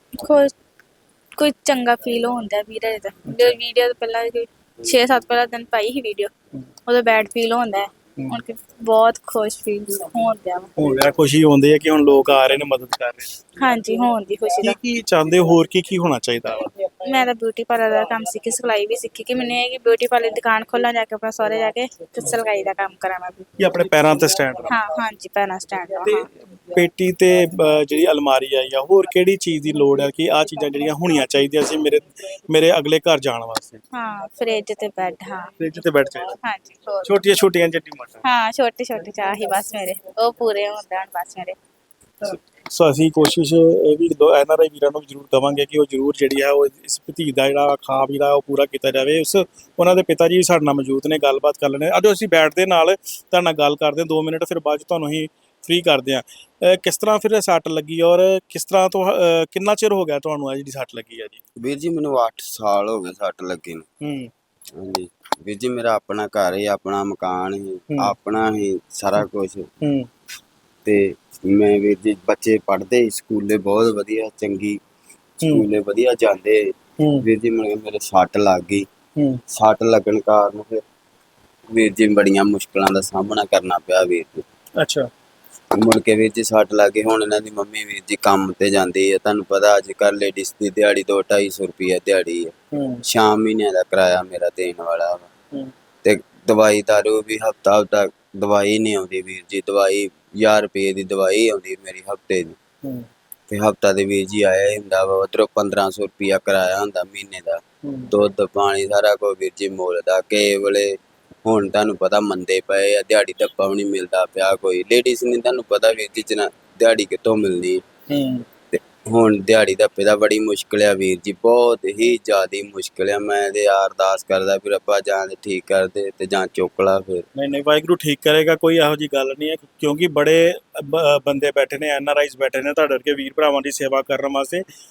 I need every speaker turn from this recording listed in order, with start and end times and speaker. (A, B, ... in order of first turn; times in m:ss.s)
0:00.2-0:00.5 A
0:01.4-0:06.3 A
0:03.3-0:03.6 B
0:06.9-0:10.7 A
0:10.8-0:13.3 B
0:13.6-0:14.8 A
0:14.6-0:16.7 B
0:17.0-0:23.4 A
0:23.6-0:24.7 B
0:24.7-0:26.3 A
0:26.0-0:33.8 B
0:33.9-0:35.5 A
0:35.6-0:36.4 B
0:36.4-0:37.2 A
0:37.0-0:38.2 B
0:38.2-0:41.6 A
0:42.2-1:01.4 B
1:01.6-1:03.9 C
1:04.0-1:04.3 B
1:04.8-1:09.7 C
1:09.8-1:10.1 B
1:10.8-1:14.8 C
1:15.4-1:16.6 C
1:17.0-1:17.3 B
1:17.2-1:18.9 C
1:19.5-1:20.8 C
1:21.7-1:24.4 C
1:24.8-1:25.1 B
1:25.8-1:32.5 C
1:32.7-1:33.0 B
1:33.1-1:35.3 C
1:36.0-1:42.6 C
1:43.5-1:57.8 C
1:47.8-1:48.1 B
1:58.1-1:58.4 B
1:58.7-2:07.2 C
2:07.4-2:14.6 B